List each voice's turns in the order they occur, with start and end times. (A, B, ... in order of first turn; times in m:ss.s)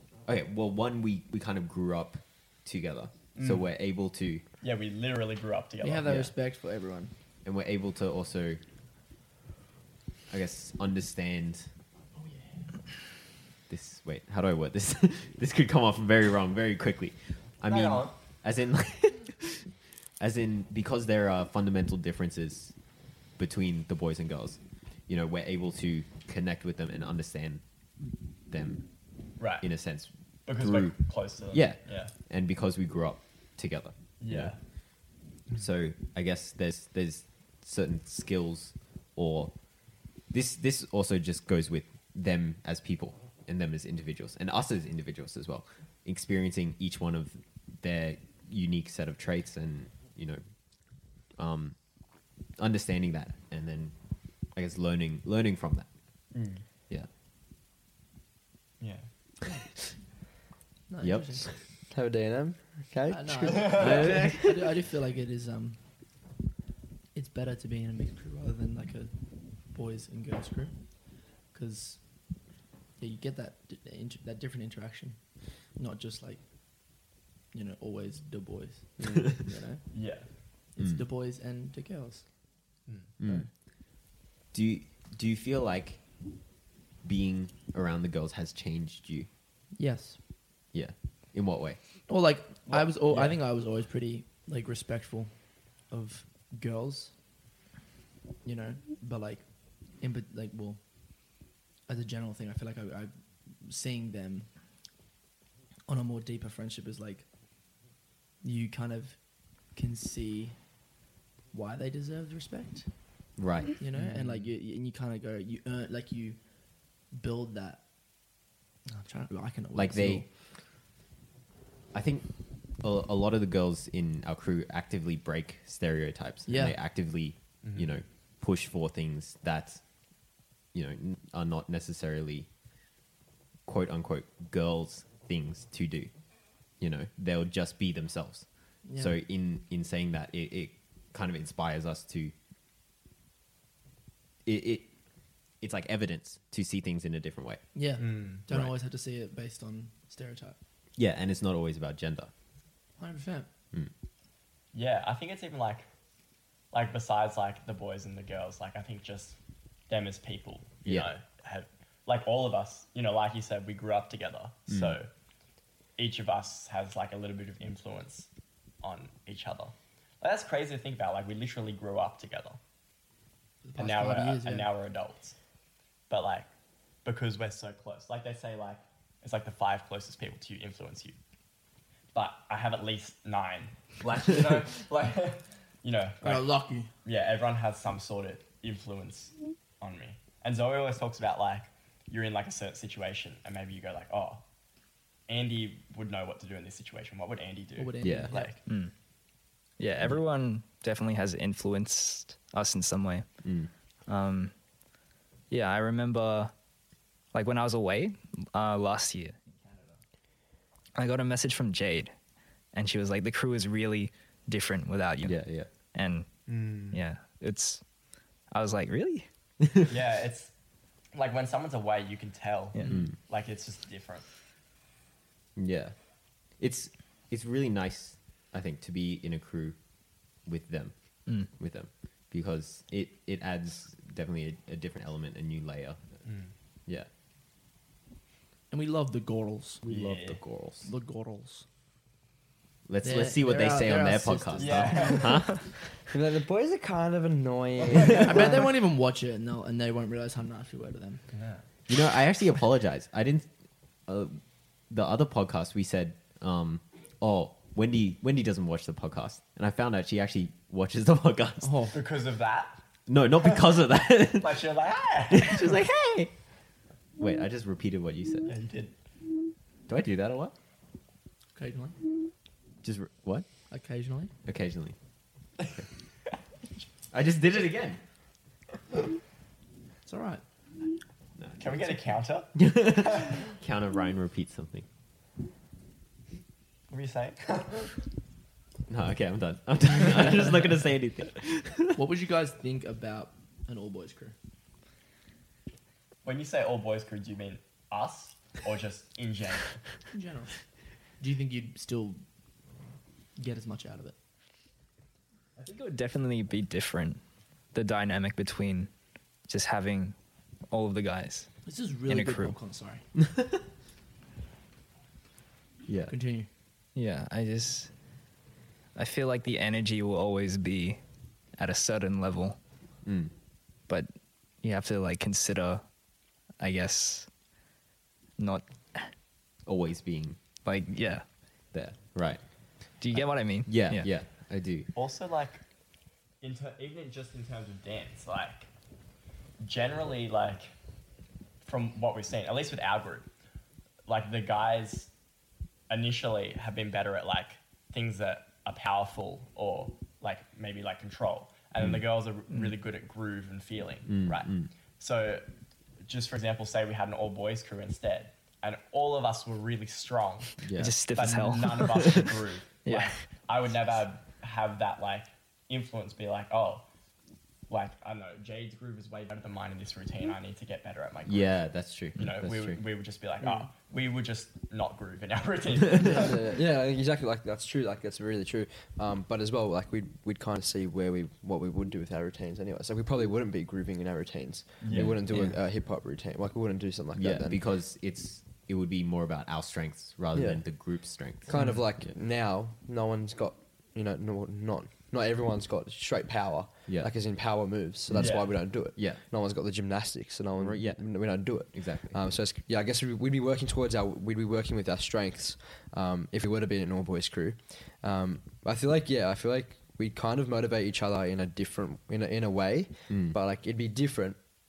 0:00.3-0:04.4 A
0:03.4-0:03.7 B
0:04.6-0:06.1 B
0:05.8-0:07.1 C
0:06.0-0:06.3 A
0:07.4-0:08.6 A
0:10.3-0:11.7 A
0:13.7-0:19.7 A
0:17.6-0:18.1 B
0:20.2-0:22.8 A
0:23.4-0:27.6 A
0:28.5-0:28.8 A
0:29.4-0:29.7 B
0:29.6-0:30.9 A
0:30.5-0:32.1 B
0:31.5-0:34.5 A
0:34.2-0:34.6 B
0:35.6-0:39.6 A
0:40.3-0:50.4 A
0:51.4-0:51.8 A
0:52.6-0:54.0 A
0:54.5-0:55.9 A
0:56.3-0:56.6 B
0:58.8-0:59.1 B
1:00.9-1:01.5 C
1:01.0-1:01.5 A
1:01.9-1:04.2 D
1:03.1-1:05.8 C
1:03.7-1:04.7 A
1:07.1-1:09.1 C
1:09.7-1:10.7 C
1:11.5-1:12.0 C
1:13.0-1:15.2 C
1:15.8-1:16.4 C
1:17.5-1:19.8 C
1:19.9-1:20.3 B
1:20.8-1:22.2 C
1:23.2-1:23.5 A
1:24.5-1:26.0 A
1:27.0-1:29.3 A
1:29.8-1:30.2 C
1:30.7-1:31.8 A
1:32.1-1:35.4 C
1:32.7-1:33.3 B
1:35.9-1:37.1 C
1:38.4-1:39.4 C
1:40.0-1:40.8 C
1:41.9-1:43.1 C
1:43.6-1:44.5 C
1:45.9-1:47.3 C
1:48.4-1:49.2 C
1:49.8-1:50.6 C
1:51.5-1:52.9 C
1:53.4-1:53.8 A
1:53.8-1:56.4 C
1:53.9-1:54.5 B
1:57.1-1:57.8 C
1:58.9-2:00.3 C
1:59.8-2:00.2 A
2:01.9-2:02.3 A
2:02.8-2:09.8 A
2:06.5-2:06.8 C
2:07.6-2:07.9 B
2:10.7-2:12.5 A
2:13.7-2:16.1 A
2:16.8-2:22.3 A
2:18.8-2:19.2 C
2:24.4-2:24.9 A
2:25.6-2:27.6 A
2:27.8-2:30.6 C
2:28.0-2:28.4 B
2:28.5-2:28.7 A
2:31.0-2:32.3 A
2:33.0-2:33.5 C
2:34.7-2:35.9 B
2:36.7-2:39.4 B
2:39.9-2:45.1 B
2:44.7-2:45.0 A
2:46.0-2:48.3 B
2:48.8-2:52.6 B
2:53.6-2:54.7 C
2:53.8-2:55.4 B
2:56.1-2:56.5 B
2:57.0-3:01.2 B
3:02.1-3:06.5 B
3:06.2-3:06.9 C
3:07.0-3:14.4 B
3:15.3-3:18.6 B
3:17.8-3:18.5 C
3:18.0-3:18.3 A
3:18.7-3:18.9 E
3:19.8-3:23.3 E
3:23.4-3:23.7 A
3:24.1-3:24.5 E
3:25.5-3:26.5 E
3:27.3-3:29.8 E
3:31.0-3:32.1 E
3:32.7-3:35.4 E
3:35.2-3:35.7 A
3:35.9-3:36.3 E
3:36.5-3:37.0 B
3:36.9-3:37.8 E
3:38.5-3:39.3 E
3:39.9-3:40.5 B
3:41.1-3:44.2 B
3:42.7-3:43.1 E
3:42.9-3:43.2 A
3:45.6-3:45.9 A
3:46.6-3:49.8 A
3:50.4-3:56.0 A
3:56.3-3:56.5 B
3:58.7-4:00.2 C
3:59.9-4:00.4 B
3:59.9-4:00.9 A
4:00.8-4:01.6 C
4:02.9-4:05.7 A
4:03.0-4:05.3 C
4:04.6-4:05.5 B
4:06.0-4:08.7 D
4:07.9-4:08.3 B
4:08.2-4:11.2 C
4:11.3-4:11.6 B
4:11.9-4:13.5 A
4:14.1-4:21.8 A
4:21.6-4:22.0 C
4:21.9-4:22.8 B
4:23.1-4:24.7 A
4:24.4-4:25.7 B
4:25.3-4:26.3 A
4:27.2-4:28.5 A
4:28.5-4:28.9 B
4:29.9-4:30.5 A
4:31.6-4:32.0 C
4:32.8-4:33.5 A
4:33.7-4:34.3 C
4:34.4-4:35.0 A
4:37.1-4:38.0 A
4:40.0-4:40.4 C
4:41.4-4:41.8 A
4:41.6-4:43.5 B
4:42.6-4:44.9 A
4:46.9-4:47.9 B
4:48.9-4:52.0 A
4:52.0-4:54.4 C
4:56.2-4:59.7 B
5:00.1-5:00.5 C
5:01.2-5:02.2 C
5:03.4-5:04.2 C
5:05.6-5:07.2 E
5:07.7-5:08.9 E
5:09.5-5:10.2 E
5:10.7-5:11.5 E
5:11.7-5:13.0 C
5:12.1-5:12.6 E
5:13.2-5:13.6 A
5:15.9-5:16.1 A
5:16.1-5:16.5 C
5:17.0-5:17.9 E
5:19.0-5:21.0 E
5:21.6-5:22.6 E
5:23.0-5:23.3 A
5:24.6-5:25.8 E
5:26.6-5:27.3 E
5:28.4-5:29.1 E
5:29.7-5:30.4 A
5:30.6-5:31.2 E
5:31.7-5:32.4 A
5:33.0-5:34.1 E
5:33.7-5:34.9 A
5:35.0-5:35.6 B
5:36.4-5:38.7 B
5:39.6-5:40.7 B
5:41.6-5:43.3 B
5:44.1-5:45.1 B
5:45.9-5:55.4 B
5:54.1-5:54.7 A
5:56.0-6:00.6 B
6:00.6-6:01.0 A
6:00.7-6:02.3 E
6:01.2-6:06.9 B
6:02.8-6:03.2 E
6:07.7-6:11.6 B
6:11.3-6:12.8 A
6:12.2-6:16.4 B
6:16.0-6:16.4 C
6:16.1-6:27.6 D
6:24.8-6:25.2 B
6:24.9-6:25.6 A
6:27.2-6:31.5 A
6:30.3-6:30.6 D
6:31.4-6:54.4 D
6:31.5-6:31.8 B
6:38.1-6:39.2 A
6:38.2-6:38.5 B
6:40.6-6:42.2 A
6:53.1-6:53.4 A